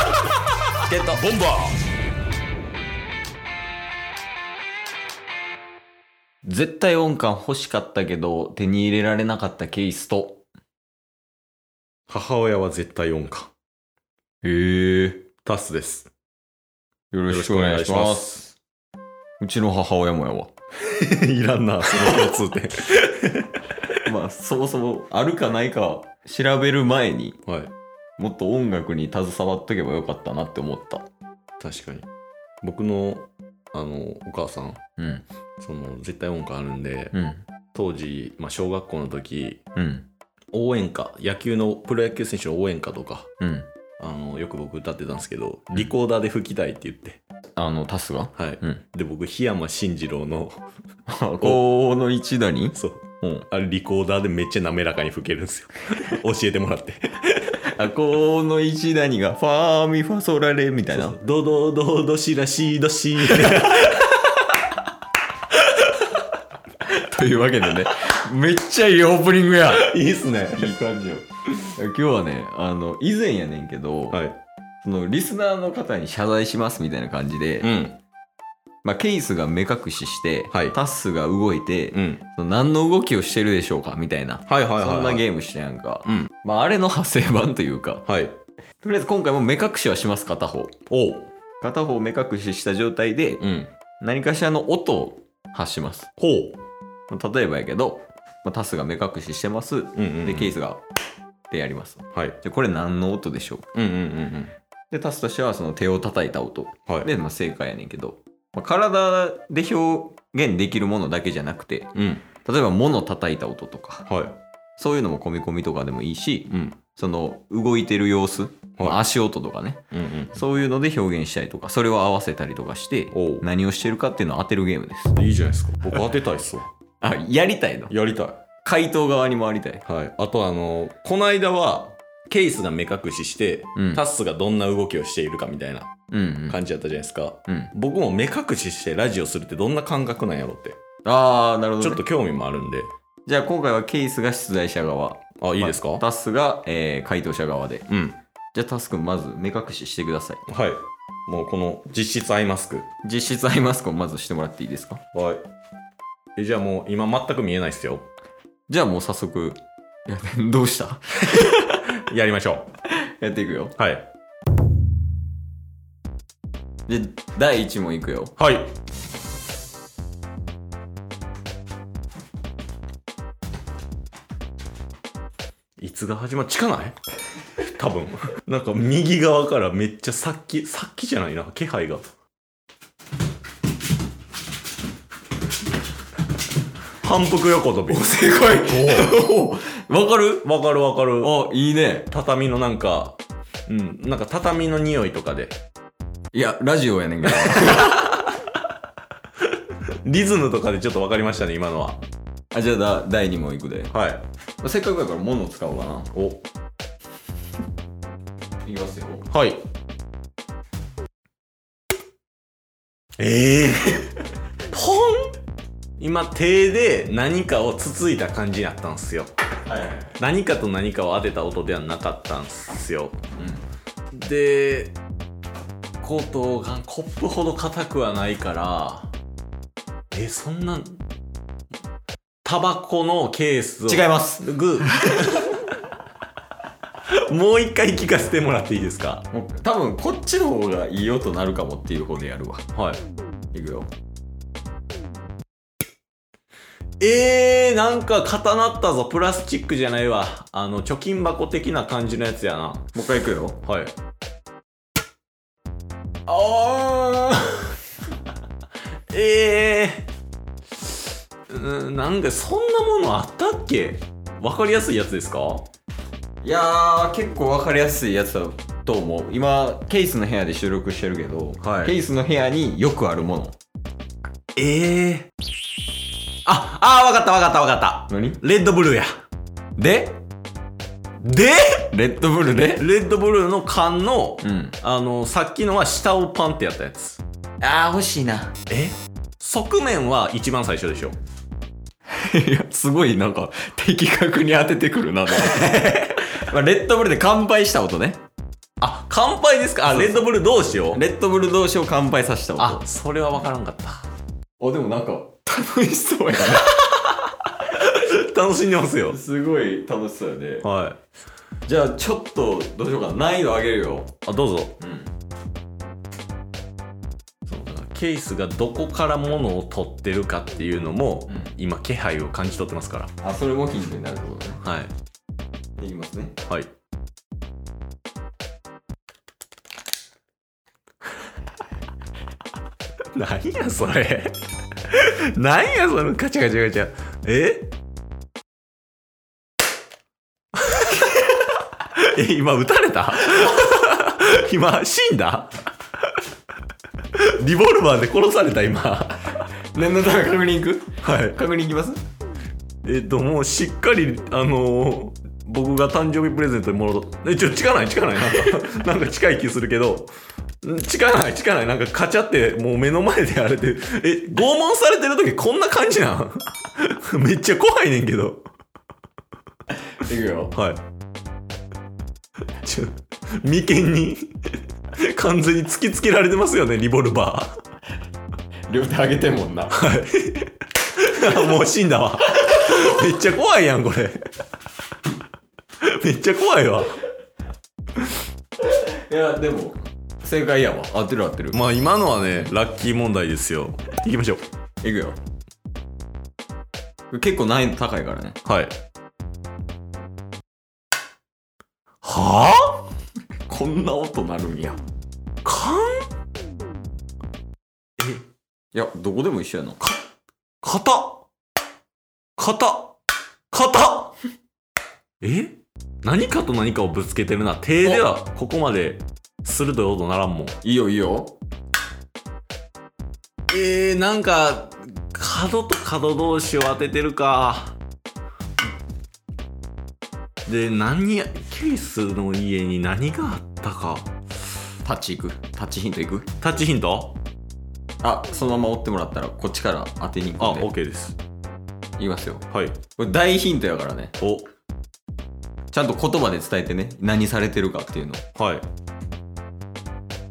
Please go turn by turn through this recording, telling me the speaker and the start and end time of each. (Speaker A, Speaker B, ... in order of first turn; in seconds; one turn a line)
Speaker A: 0.9-1.2
Speaker B: 1.1-1.8
Speaker A: 6.4-10.4
Speaker B: 12.1-13.5
Speaker A: 14.4-15.3
Speaker B: 15.4-16.1
Speaker A: 17.1-18.5
Speaker B: 17.3-18.4
Speaker A: 19.4-20.5
Speaker B: 20.8-24.0
Speaker A: 24.1-27.4
Speaker B: 27.4-27.7
Speaker A: 28.2-31.1
Speaker B: 31.6-32.0
Speaker B: 32.6-34.8
Speaker A: 35.0-35.2
Speaker B: 35.6-37.1
Speaker A: 37.1-37.4
Speaker B: 37.7-39.6
Speaker A: 39.8-40.0
Speaker B: 40.5-43.3
Speaker A: 43.4-43.7
Speaker B: 44.0-47.2
Speaker A: 47.6-48.8
Speaker B: 48.4-50.6
Speaker A: 51.1-53.4
Speaker B: 52.7-57.6
Speaker A: 57.7-61.2
Speaker B: 60.9-64.5
Speaker B: 65.6-66.0
Speaker A: 66.8-69.8
Speaker B: 69.7-70.8
Speaker A: 70.5-74.2
Speaker B: 74.1-74.3
Speaker A: 74.8-77.7
Speaker B: 77.6-78.0
Speaker A: 78.8-88.0
Speaker B: 80.5-80.8
Speaker B: 81.9-82.2
Speaker B: 84.5-85.2
Speaker B: 86.0-86.3
Speaker B: 88.0-88.3
Speaker A: 88.8-90.7
Speaker B: 90.9-91.3
Speaker A: 91.6-93.5
Speaker B: 93.4-93.7
Speaker A: 94.0-96.1
Speaker B: 96.2-96.6
Speaker A: 97.1-100.8
Speaker B: 99.9-100.5
Speaker A: 101.5-103.7
Speaker B: 102.1-102.4
Speaker B: 103.7-104.5
Speaker A: 104.9-111.9
Speaker B: 111.9-112.2
Speaker A: 112.4-114.0
Speaker B: 114.0-114.4
Speaker A: 114.8-119.8
Speaker B: 116.5-116.8
Speaker B: 119.9-120.4
Speaker A: 120.3-125.1
Speaker B: 123.1-123.5
Speaker B: 125.1-126.7
Speaker A: 127.0-127.9
Speaker B: 127.9-128.4
Speaker A: 128.6-129.8
Speaker B: 129.8-135.9
Speaker A: 133.8-134.0
Speaker A: 136.1-136.6
Speaker B: 136.5-140.8
Speaker A: 141.0-142.0
Speaker B: 141.8-142.9
Speaker A: 143.2-147.8
Speaker B: 145.4-146.0
Speaker B: 147.9-148.2
Speaker A: 148.5-150.4
Speaker B: 150.5-152.9
Speaker A: 153.0-155.0
Speaker B: 155.1-155.4
Speaker B: 156.3-158.1
Speaker A: 158.7-161.8
Speaker B: 161.8-162.7
Speaker A: 162.8-163.7
Speaker B: 163.8-164.1
Speaker A: 166.9-168.3
Speaker B: 168.4-168.7
Speaker B: 175.8-177.0
Speaker B: 177.6-182.1
Speaker B: 187.0-189.2
Speaker A: 187.9-190.5
Speaker B: 190.4-191.4
Speaker A: 191.2-192.1
Speaker B: 192.1-195.6
Speaker A: 196.3-198.2
Speaker B: 197.2-198.2
Speaker B: 199.9-202.0
Speaker A: 202.5-203.9
Speaker B: 203.9-204.2
Speaker A: 204.6-206.1
Speaker B: 206.1-206.4
Speaker A: 208.6-209.2
Speaker B: 209.3-209.6
Speaker B: 213.2-214.1
Speaker B: 214.7-215.3
Speaker B: 216.0-219.3
Speaker A: 219.7-220.1
Speaker B: 220.1-223.2
Speaker A: 223.4-223.6
Speaker B: 224.1-224.9
Speaker B: 226.0-229.1
Speaker B: 230.1-231.0
Speaker B: 232.4-235.4
Speaker A: 233.8-235.3
Speaker B: 237.1-239.3
Speaker A: 239.3-242.6
Speaker B: 242.7-243.0
Speaker A: 243.5-243.9
Speaker B: 247.0-253.0
Speaker A: 252.9-253.6
Speaker B: 253.6-253.9
Speaker A: 256.3-257.6
Speaker B: 259.1-260.1
Speaker B: 260.9-265.7
Speaker A: 266.4-273.6
Speaker B: 271.6-272.0
Speaker B: 274.6-275.3
Speaker B: 276.4-279.2
Speaker A: 278.1-278.4
Speaker A: 279.8-280.2
Speaker B: 281.2-282.0
Speaker A: 281.9-282.9
Speaker B: 282.6-287.2
Speaker A: 284.4-284.8
Speaker A: 287.6-288.5
Speaker B: 288.7-291.2
Speaker A: 292.1-295.8
Speaker B: 295.3-296.4
Speaker A: 296.3-298.2
Speaker B: 298.8-301.0
Speaker A: 299.9-302.8
Speaker B: 302.6-304.1
Speaker A: 304.6-306.7
Speaker B: 306.7-309.2
Speaker A: 309.1-310.7
Speaker B: 310.6-311.0
Speaker A: 311.6-314.1
Speaker B: 314.2-314.8
Speaker A: 314.8-315.1
Speaker B: 317.4-323.1
Speaker A: 323.2-324.6
Speaker B: 324.6-324.9
Speaker A: 325.8-326.4
Speaker B: 333.1-337.7
Speaker B: 340.6-341.2
Speaker B: 341.9-346.2
Speaker B: 347.1-349.5
Speaker A: 349.7-352.0
Speaker B: 351.0-351.4
Speaker B: 352.8-360.1
Speaker B: 360.6-368.4
Speaker A: 370.0-370.5
Speaker B: 370.5-370.8
Speaker B: 372.6-377.6
Speaker A: 378.7-379.7
Speaker B: 379.7-384.2
Speaker B: 385.8-386.9
Speaker A: 388.6-391.6
Speaker B: 391.5-394.4
Speaker A: 394.8-395.2
Speaker A: 397.1-398.4
Speaker B: 398.4-398.7
Speaker B: 402.0-402.9
Speaker A: 403.5-404.8
Speaker B: 405.4-406.1
Speaker A: 408.7-409.8
Speaker B: 410.6-411.2
Speaker B: 412.4-413.0
Speaker B: 413.5-414.2
Speaker B: 415.2-420.6
Speaker A: 420.6-421.4
Speaker B: 423.5-427.8
Speaker B: 430.4-434.1
Speaker A: 434.8-436.3
Speaker B: 436.4-437.1
Speaker A: 438.0-440.7
Speaker B: 440.4-441.2
Speaker A: 442.0-442.4
Speaker B: 442.5-442.8
Speaker A: 443.0-444.1
Speaker B: 444.2-444.5
Speaker A: 445.7-448.2
Speaker B: 448.4-448.6